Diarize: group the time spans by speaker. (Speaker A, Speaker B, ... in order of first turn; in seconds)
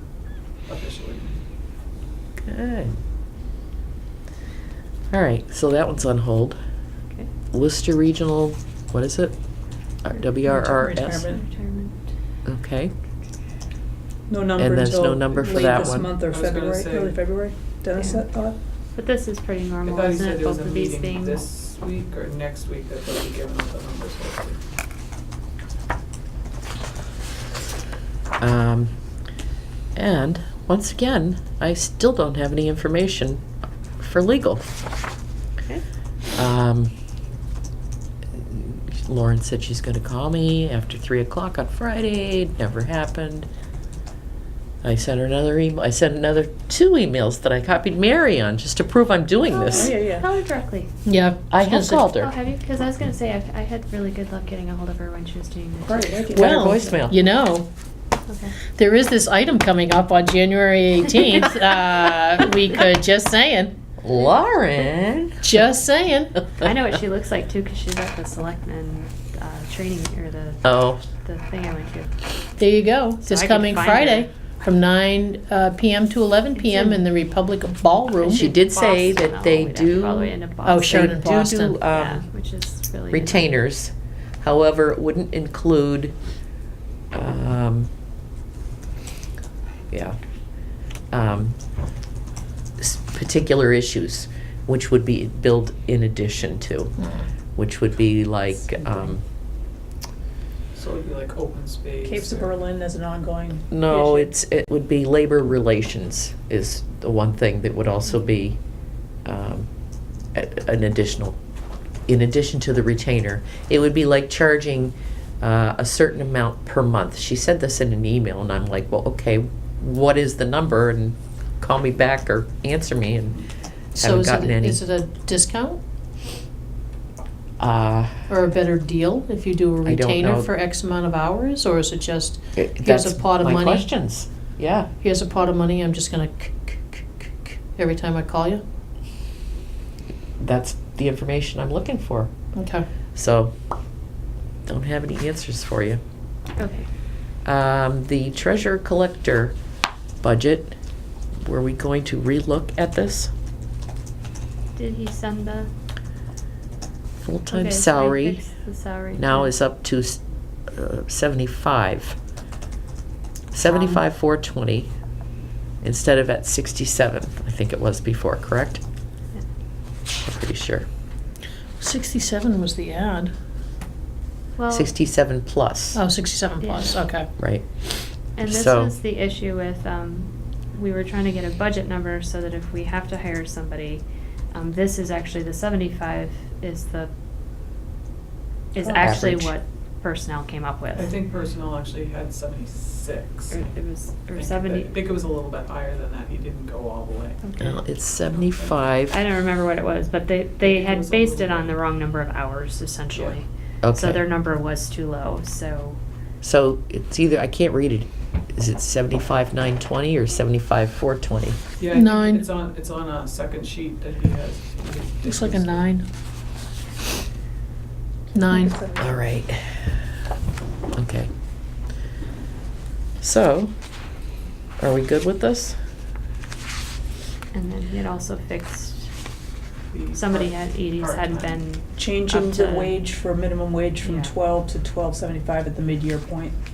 Speaker A: 0.7-1.4, 15.5-17.2, 19.8-24.6, 100.7-102.5, 190.9-193.7, 194.3-197.4, 198.3-198.9, 200.6-201.8, 203.1-203.4, 211.8-215.9, 229.9-231.6
Speaker B: 2.4-2.9, 5.1-6.6, 7.5-9.4, 10.0-11.3, 12.4-12.9, 14.6-16.1, 28.4-28.9, 29.9-33.5, 34.0-34.8, 36.4-36.9, 38.3-43.5, 44.8-50.0, 51.5-52.3, 56.3-57.1, 64.0-65.7, 70.6-71.0, 78.2-80.3, 80.8-82.2, 83.1-86.1, 87.1-87.9, 89.9-90.2, 91.1-91.6, 92.8-97.0, 97.5-99.2, 103.7-108.6, 109.2-109.7, 110.3-111.4, 112.1-123.4, 124.0-124.8, 127.6-128.3, 129.8-130.5, 132.6-134.9, 140.4-142.3, 143.1-143.5, 144.7-146.0, 147.4-149.6, 150.2-150.8, 151.4-153.3, 157.2-158.4, 159.1-162.2, 163.5-164.9, 165.8-168.8, 170.2-170.9, 174.7-176.0, 177.4-178.9, 189.0-189.5, 197.6-199.2, 203.8-204.2, 206.4-211.6, 219.0-219.9, 220.9-221.3, 223.2-223.7, 224.8-225.8
Speaker C: 10.5-11.4, 14.3-18.6, 49.8-50.2, 55.8-56.5, 102.0-104.2, 218.5-219.1, 232.0-236.6
Speaker D: 10.8-12.1, 17.9-18.2, 18.9-21.4, 49.5-50.9, 52.2-57.0, 58.3-58.5, 66.6-72.1, 73.2-74.3, 76.5-77.0, 78.3-83.5, 146.6-146.9, 154.7-155.7, 157.5-159.5, 163.6-164.0, 174.6-174.9, 176.6-177.0, 178.4-187.1, 188.7-191.1, 193.5-195.0, 197.4-197.8, 199.1-206.0, 227.5-229.1, 230.1-232.9, 234.0-234.3
Speaker E: 51.0-52.0, 56.3-57.7, 58.7-63.7, 65.4-66.3, 72.6-78.5, 80.6-81.8, 97.0-97.3, 123.9-125.8, 128.3-133.9, 135.0-138.6, 142.5-142.8, 171.8-173.3, 175.9-177.3, 211.9-212.4, 215.2-216.1, 218.3-218.8